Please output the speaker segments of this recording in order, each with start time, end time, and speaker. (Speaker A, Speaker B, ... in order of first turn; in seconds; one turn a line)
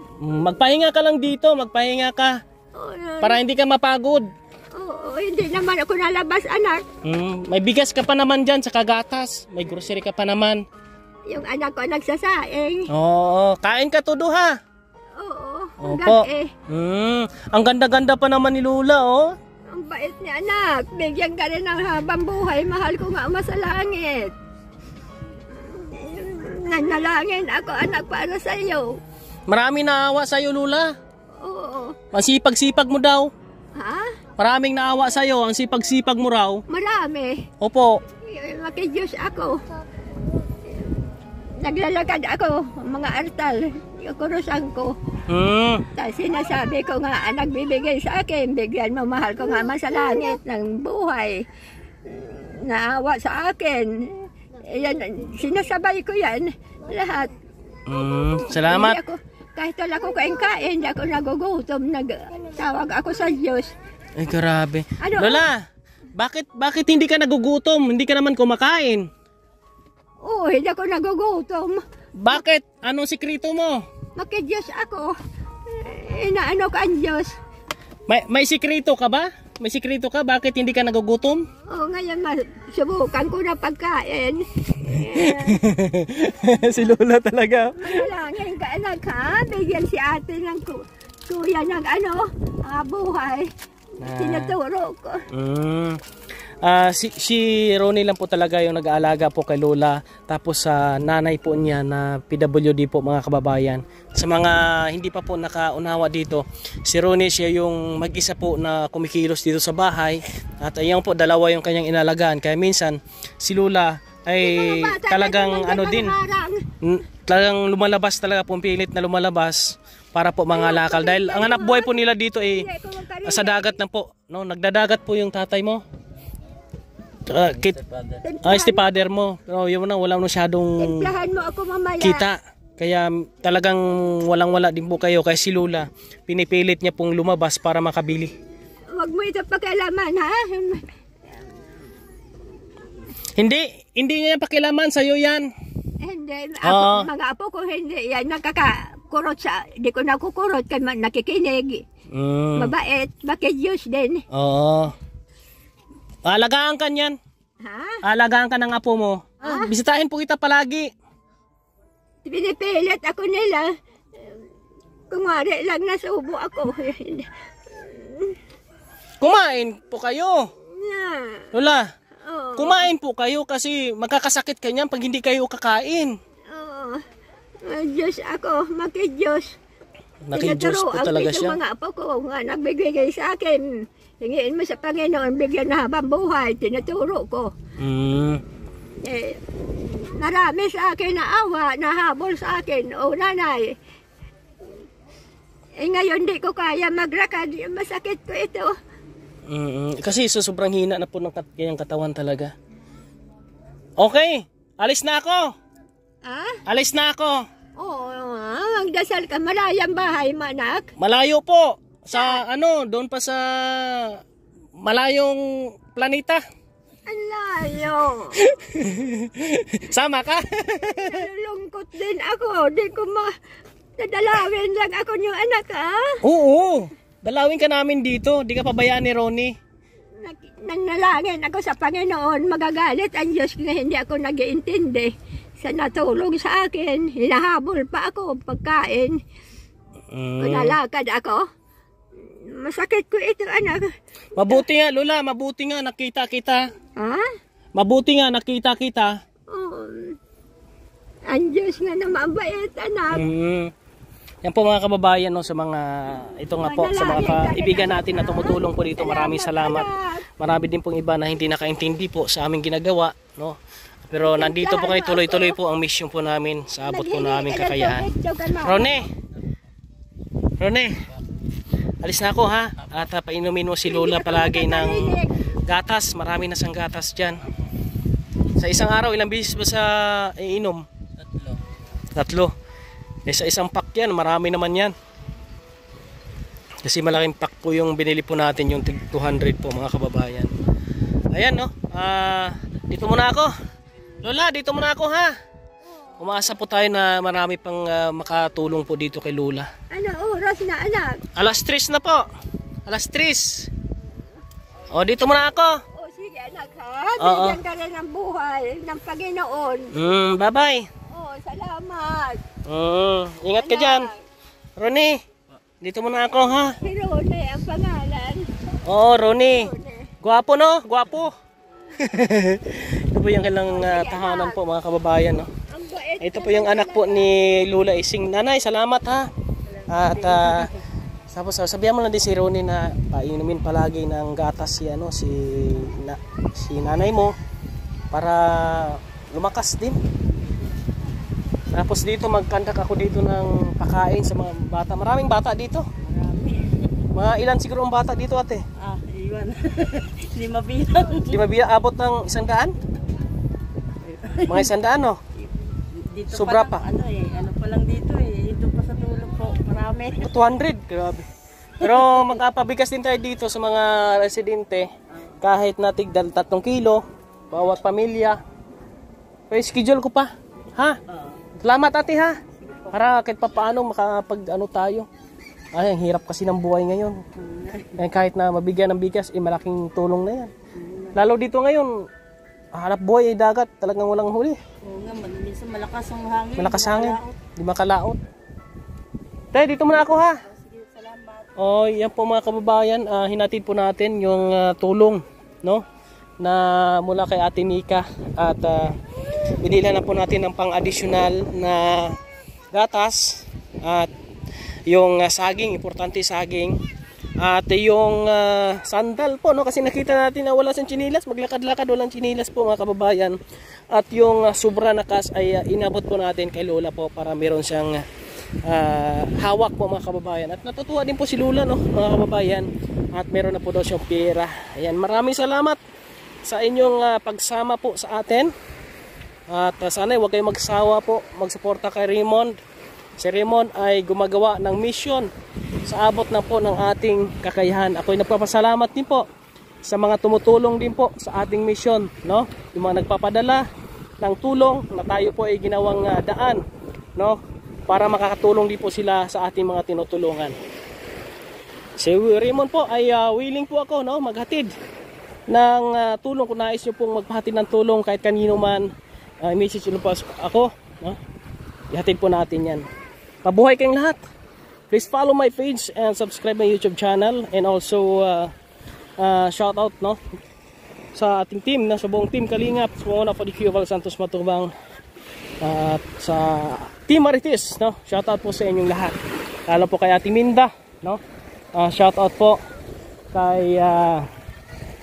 Speaker A: 0.2-2.3
Speaker B: 2.7-3.4
Speaker A: 3.2-4.2
Speaker B: 4.7-6.8
Speaker A: 7.0-10.6
Speaker B: 11.3-12.9
Speaker A: 12.9-14.5
Speaker B: 15.2-16.5
Speaker A: 15.8-19.3
Speaker B: 19.7-24.3
Speaker B: 25.5-29.0
Speaker A: 29.5-30.9
Speaker B: 31.4-32.0
Speaker A: 32.1-33.3
Speaker B: 33.8-34.2
Speaker A: 34.4-36.6
Speaker B: 36.7-37.4
Speaker A: 37.6-38.0
Speaker B: 38.2-39.6
Speaker B: 41.6-44.9
Speaker A: 45.3-45.8
Speaker B: 45.9-51.4
Speaker B: 52.0-57.3
Speaker A: 57.9-59.0
Speaker B: 58.6-63.7
Speaker A: 64.2-65.6
Speaker B: 65.0-65.5
Speaker A: 66.2-69.1
Speaker B: 70.2-71.8
Speaker A: 72.2-73.8
Speaker B: 74.2-75.1
Speaker B: 75.7-77.3
Speaker A: 78.1-81.5
Speaker B: 81.7-85.6
Speaker A: 84.9-88.1
Speaker B: 87.8-93.5
Speaker A: 94.0-94.5
Speaker B: 94.1-95.2
Speaker A: 95.3-96.0
Speaker A: 96.6-116.1
Speaker B: 114.4-116.6
Speaker A: 116.8-122.7
Speaker B: 120.5-123.7
Speaker A: 123.2-125.8
Speaker A: 127.3-131.1
Speaker B: 128.2-128.8
Speaker B: 130.8-132.2
Speaker A: 132.0-138.3
Speaker B: 138.9-140.8
Speaker A: 143.3-145.5
Speaker B: 146.0-151.8
Speaker A: 146.6-147.1
Speaker A: 152.1-152.7
Speaker B: 152.6-154.2
Speaker A: 154.3-154.9
Speaker A: 156.2-157.2
Speaker B: 157.6-158.0
Speaker A: 158.0-160.9
Speaker B: 159.4-159.7
Speaker B: 162.2-163.7
Speaker B: 165.1-168.3
Speaker A: 169.2-170.5
Speaker B: 170.7-171.5
Speaker A: 171.5-171.9
Speaker B: 172.2-172.9
Speaker A: 172.6-176.1
Speaker B: 176.5-177.0
Speaker B: 177.6-179.6
Speaker A: 180.2-181.6
Speaker B: 180.3-183.6
Speaker B: 184.2-187.5
Speaker A: 187.8-188.4
Speaker B: 188.9-193.7
Speaker B: 195.8-198.7
Speaker A: 199.5-202.5
Speaker A: 204.0-205.4
Speaker B: 206.2-206.6
Speaker A: 206.7-207.4
Speaker B: 207.8-210.9
Speaker A: 211.0-214.2
Speaker B: 212.1-212.4
Speaker A: 214.8-216.4
Speaker B: 217.1-218.4
Speaker A: 218.4-221.2
Speaker B: 220.7-223.3
Speaker B: 224.0-226.2
Speaker A: 226.2-229.5
Speaker B: 230.2-239.2
Speaker A: 240.1-240.8
Speaker B: 240.4-241.4
Speaker B: 242.2-243.9
Speaker A: 244.3-246.6
Speaker B: 247.0-247.3
Speaker A: 247.8-249.1
Speaker B: 249.5-250.2
Speaker B: 251.3-253.2
Speaker A: 253.1-253.7
Speaker A: 254.4-259.9
Speaker B: 256.6-260.2
Speaker A: 260.4-269.1
Speaker B: 264.2-265.6
Speaker B: 266.8-269.0
Speaker A: 270.6-271.1
Speaker A: 272.0-277.4
Speaker B: 273.9-275.4
Speaker A: 278.6-280.8
Speaker A: 282.1-282.5
Speaker A: 283.2-284.9
Speaker A: 286.8-290.5
Speaker A: 291.3-293.5
Speaker A: 294.2-295.3
Speaker A: 296.2-299.7
Speaker B: 299.9-301.2
Speaker A: 301.4-302.2
Speaker A: 302.9-303.7
Speaker A: 304.9-305.8
Speaker B: 305.9-309.9
Speaker A: 307.2-307.6
Speaker A: 309.9-310.9
Speaker B: 311.1-312.4
Speaker A: 312.6-314.1
Speaker B: 313.6-314.2
Speaker A: 314.8-315.2
Speaker A: 315.8-316.8
Speaker B: 316.8-318.4
Speaker A: 318.9-321.3
Speaker B: 319.5-320.1
Speaker A: 321.9-325.5
Speaker B: 323.6-324.6
Speaker B: 325.7-327.3
Speaker A: 326.2-329.3
Speaker A: 329.9-330.7
Speaker C: 330.0-330.7
Speaker A: 331.3-337.3
Speaker A: 338.1-340.0
Speaker A: 341.7-345.8
Speaker C: 346.0-346.8
Speaker A: 347.1-348.6
Speaker C: 348.8-351.4
Speaker A: 351.3-352.7
Speaker C: 354.0-354.7
Speaker A: 354.4-355.2
Speaker C: 355.9-360.2
Speaker A: 356.3-356.9
Speaker A: 360.2-361.3
Speaker A: 361.8-364.9
Speaker A: 365.4-368.4
Speaker A: 369.5-371.0
Speaker C: 371.1-371.4
Speaker A: 371.6-372.4
Speaker A: 372.9-375.1
Speaker A: 375.7-377.2
Speaker C: 377.4-377.9
Speaker A: 377.9-380.5
Speaker C: 380.8-381.1
Speaker A: 381.1-381.9
Speaker A: 382.7-384.6
Speaker C: 384.8-387.4
Speaker A: 386.6-388.2
Speaker A: 389.5-390.4
Speaker C: 390.5-391.5
Speaker A: 391.6-395.8
Speaker A: 396.4-398.9
Speaker A: 399.6-402.2
Speaker A: 402.7-404.1
Speaker A: 404.9-406.8
Speaker A: 407.4-413.4
Speaker A: 413.9-418.0
Speaker A: 418.6-425.8
Speaker A: 426.4-428.5
Speaker A: 429.5-432.6
Speaker A: 433.2-435.3
Speaker A: 435.9-439.2
Speaker A: 439.8-443.6
Speaker A: 444.2-446.6
Speaker A: 447.2-450.6
Speaker A: 452.0-454.7
Speaker A: 455.5-458.9
Speaker A: 459.4-461.2
Speaker A: 461.9-462.8
Speaker A: 463.4-464.2
Speaker A: 464.9-468.5
Speaker A: 469.2-470.2
Speaker A: 471.1-474.7
Speaker A: 475.6-481.2
Speaker A: 481.7-482.6
Speaker A: 483.3-484.3